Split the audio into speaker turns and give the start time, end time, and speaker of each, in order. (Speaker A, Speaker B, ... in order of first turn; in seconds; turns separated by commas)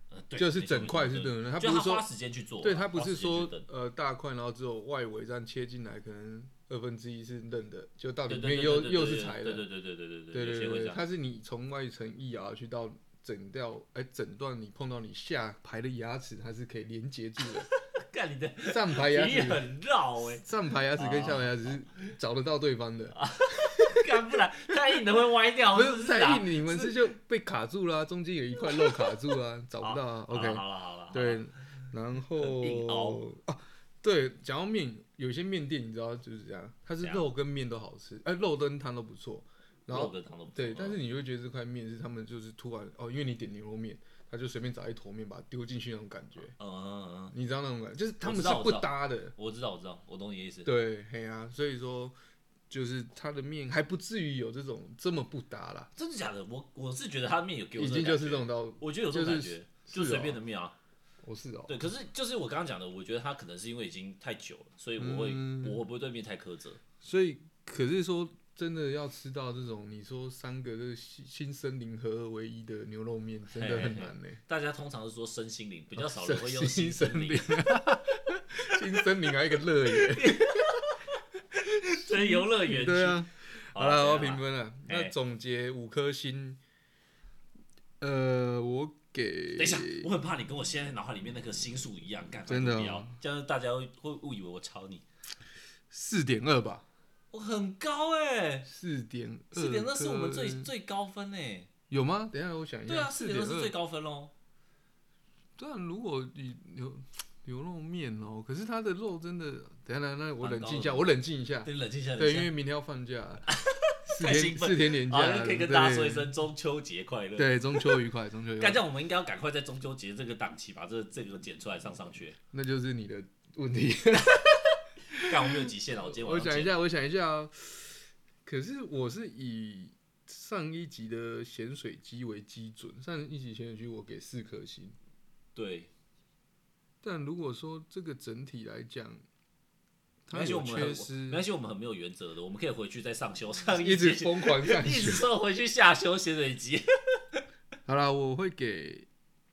Speaker A: 0.1-3.7, Speaker B: 0.3-2.0, Speaker B: 2.6-9.7, Speaker A: 8.3-11.0, Speaker B: 10.3-17.7, Speaker A: 17.5-22.1, Speaker B: 18.7-19.7, Speaker B: 20.4-24.1, Speaker A: 23.1-27.0, Speaker B: 25.7-46.5, Speaker A: 28.6-29.1, Speaker A: 29.8-31.4, Speaker A: 32.4-33.2, Speaker A: 37.0-37.3, Speaker A: 39.9-41.0, Speaker A: 46.6-47.3, Speaker B: 47.3-49.3, Speaker A: 48.2-50.7, Speaker B: 50.6-52.1, Speaker B: 52.7-55.9, Speaker A: 56.0-60.8, Speaker B: 57.8-60.4, Speaker B: 61.2-61.7, Speaker A: 61.7-66.8, Speaker B: 65.0-65.8, Speaker B: 67.0-74.4, Speaker A: 73.5-77.6, Speaker B: 76.0-80.7, Speaker A: 79.9-85.1, Speaker B: 82.0-86.6, Speaker B: 88.0-90.1, Speaker A: 89.5-95.0, Speaker B: 92.5-93.2, Speaker B: 95.9-96.9, Speaker A: 97.3-98.7, Speaker B: 98.7-100.7, Speaker A: 99.5-101.7, Speaker B: 101.9-103.7, Speaker A: 102.9-104.3, Speaker B: 105.6-113.5, Speaker A: 110.4-112.5, Speaker A: 113.5-118.1, Speaker B: 114.1-116.3, Speaker B: 117.4-118.8, Speaker A: 118.6-122.4, Speaker B: 122.5-135.0, Speaker A: 125.2-126.8, Speaker A: 135.6-135.9, Speaker B: 137.0-139.2, Speaker B: 140.3-141.4, Speaker A: 140.3-147.4, Speaker B: 143.8-145.3, Speaker B: 147.9-149.1